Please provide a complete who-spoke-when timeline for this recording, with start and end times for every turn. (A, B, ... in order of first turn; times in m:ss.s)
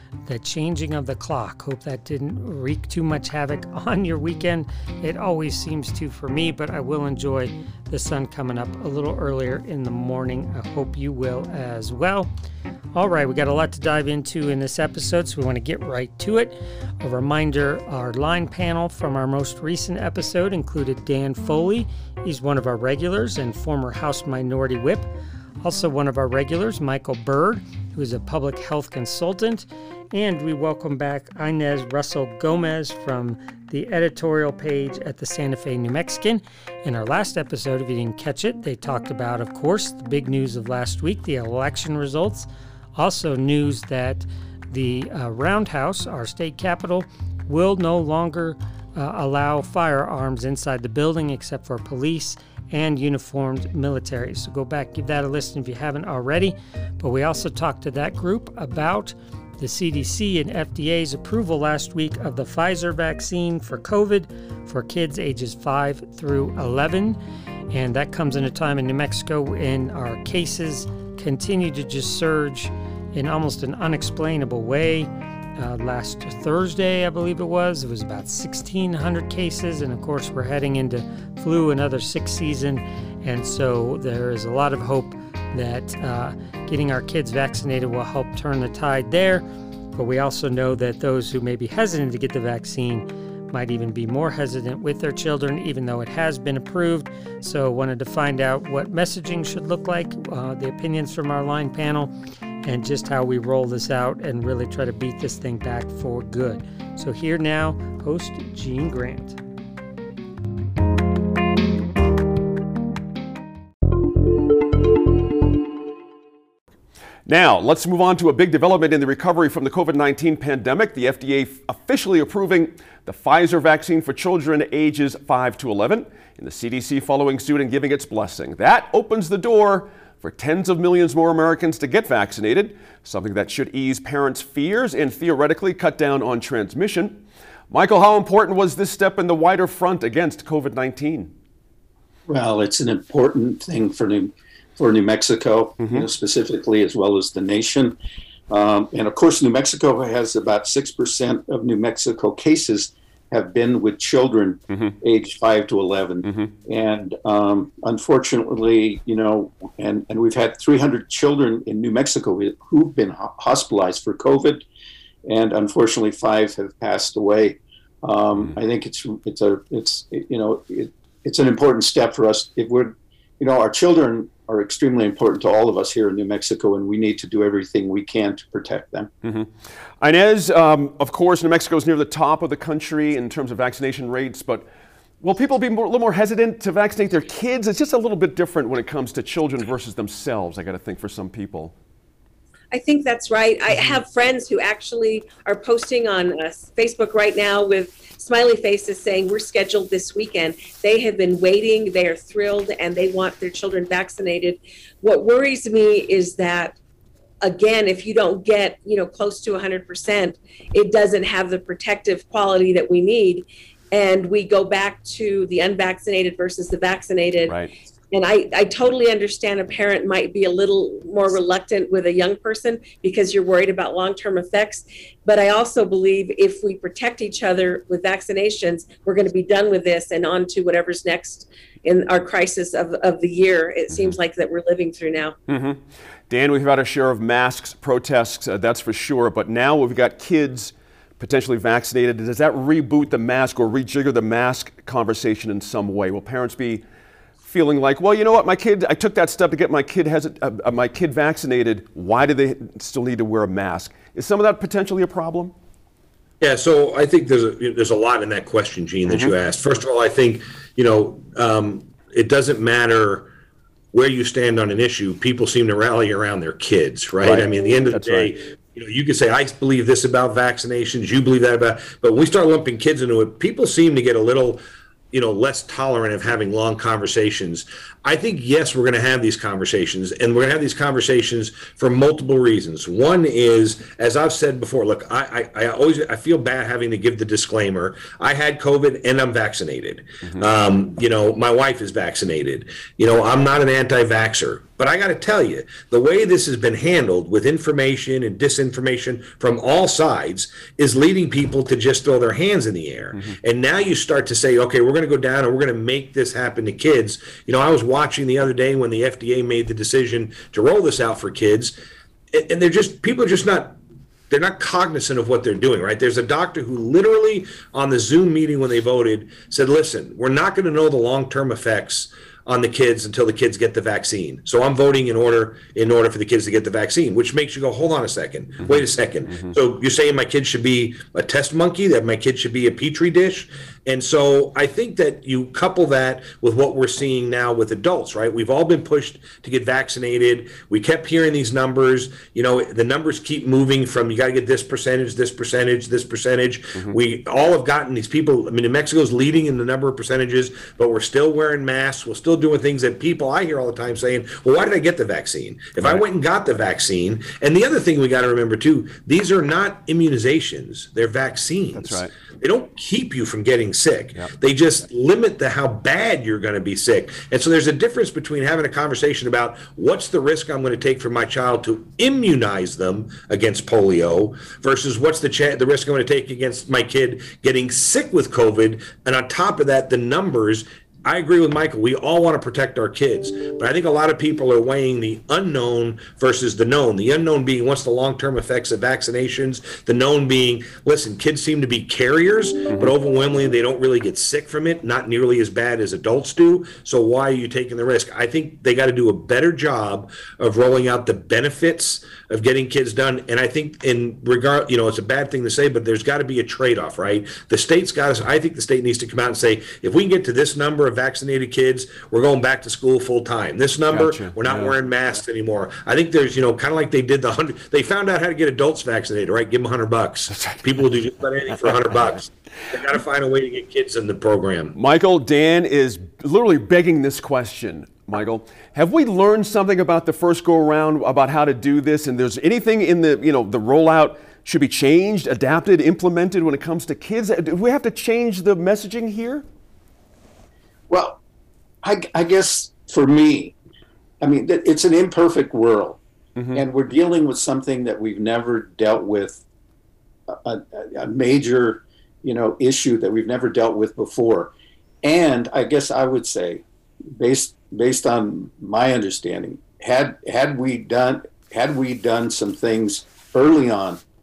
0:00.2-0:12.3 A
0:12.9-0:25.1 A
0:25.6-1:07.2 A
1:07.7-1:42.1 A
1:42.6-1:49.4 A
1:57.2-2:21.3 B
2:22.3-2:28.0 C
2:25.8-2:26.1 B
2:28.5-2:44.6 C
2:34.7-2:35.0 B
2:36.2-2:36.5 B
2:45.2-2:59.1 C
2:59.2-3:04.7 B
3:05.2-3:11.7 B
3:12.7-3:26.8 D
3:13.7-3:14.0 B
3:27.4-3:37.6 D
3:37.4-3:37.7 B
3:38.1-3:55.4 D
3:53.9-3:54.2 B
3:55.5-4:06.8 B
4:07.4-4:15.5 B
4:16.4-4:23.3 E
4:19.1-4:19.3 B
4:23.9-5:11.7 E
4:27.2-4:28.3 B
5:12.3-5:13.8 E
5:14.3-7:04.8 E
5:28.6-5:29.5 B
6:01.7-6:02.1 B
6:53.9-6:54.8 B
7:00.3-7:00.9 B
7:04.7-7:19.4 B
7:20.9-7:21.2 C
7:21.8-7:23.5 C
7:24.2-7:26.0 C
7:26.4-7:26.6 B
7:26.5-7:29.4 C
7:30.3-7:36.6 C
7:37.2-7:44.0 C